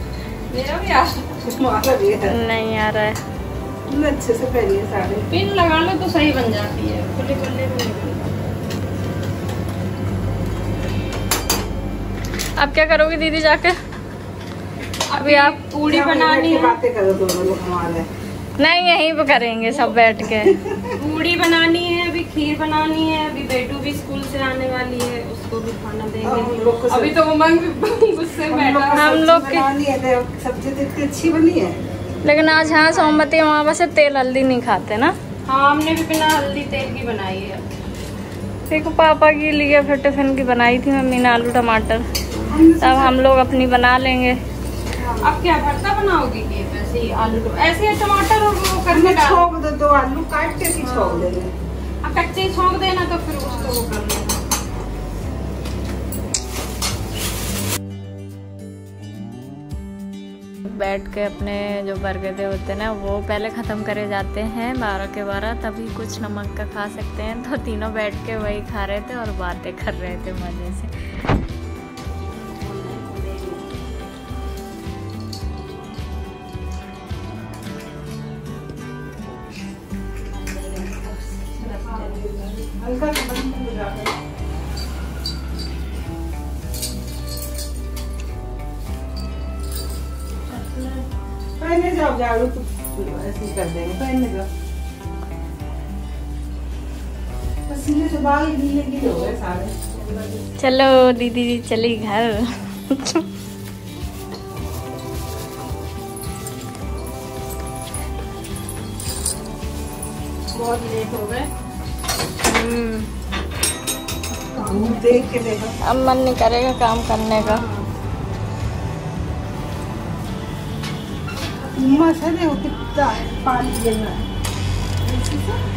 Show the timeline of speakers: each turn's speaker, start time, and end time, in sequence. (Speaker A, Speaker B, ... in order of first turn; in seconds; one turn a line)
Speaker A: 0.5-1.4
Speaker B: 1.4-2.3
Speaker C: 2.3-3.2
Speaker B: 3.9-5.2
Speaker A: 5.3-8.6
Speaker C: 12.6-13.7
Speaker A: 15.1-16.8
Speaker C: 15.2-15.6
Speaker B: 15.8-18.1
Speaker C: 18.6-20.6
Speaker B: 20.4-20.9
Speaker A: 20.9-29.1
Speaker B: 26.2-27.1
Speaker B: 28.4-31.8
Speaker C: 28.9-29.7
Speaker C: 32.2-35.1
Speaker A: 32.6-33.3
Speaker A: 35.5-37.6
Speaker C: 38.7-42.0
Speaker B: 42.5-43.2
Speaker C: 42.8-44.4
Speaker B: 44.9-45.4
Speaker A: 45.2-49.5
Speaker B: 48.9-51.5
Speaker A: 50.8-51.3
Speaker A: 52.0-54.4
Speaker C: 60.6-70.9
Speaker A: 72.2-73.7
Speaker A: 80.2-82.3
Speaker B: 81.8-84.1
Speaker A: 90.5-91.0
Speaker B: 91.6-94.5
Speaker B: 97.7-100.4
Speaker C: 100.6-103.2
Speaker A: 110.5-111.5
Speaker C: 112.4-113.1
Speaker A: 114.5-115.0
Speaker B: 114.5-115.7
Speaker C: 115.8-117.6
Speaker A: 117.3-117.9
Speaker A: 121.6-122.0
Speaker B: 121.7-124.2
Speaker A: 122.9-123.3
Speaker B: 125.0-125.6